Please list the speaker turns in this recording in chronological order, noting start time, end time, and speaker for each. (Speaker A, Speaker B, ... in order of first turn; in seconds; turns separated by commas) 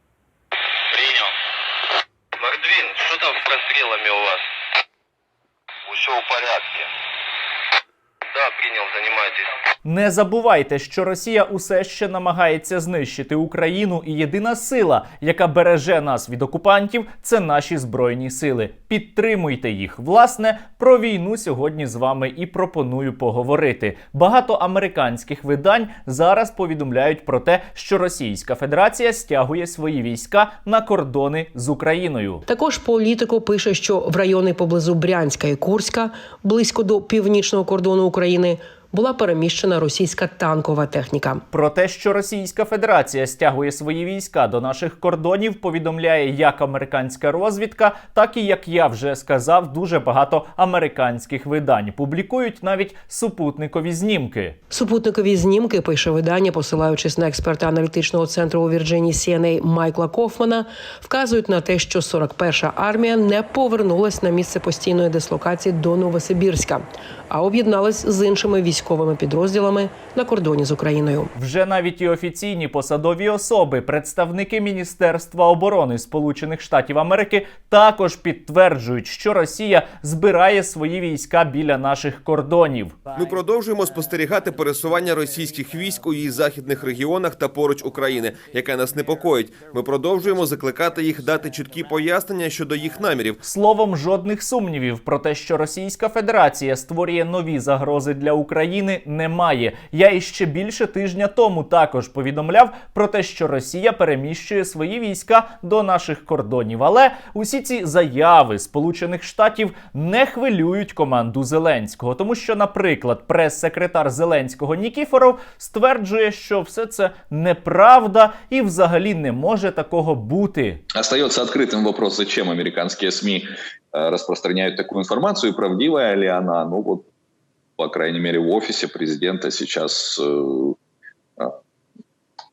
Speaker A: 0.9-1.3, Speaker A: 2.4-4.4, Speaker A: 5.9-6.9, Speaker A: 8.3-9.5, Speaker B: 9.8-32.4, Speaker C: 32.5-41.4, Speaker B: 41.5-54.6, Speaker C: 54.7-71.3, Speaker B: 71.3-83.0, Speaker D: 83.1-93.4, Speaker B: 93.4-120.8, Speaker E: 120.9-127.1, Speaker E: 127.8-130.8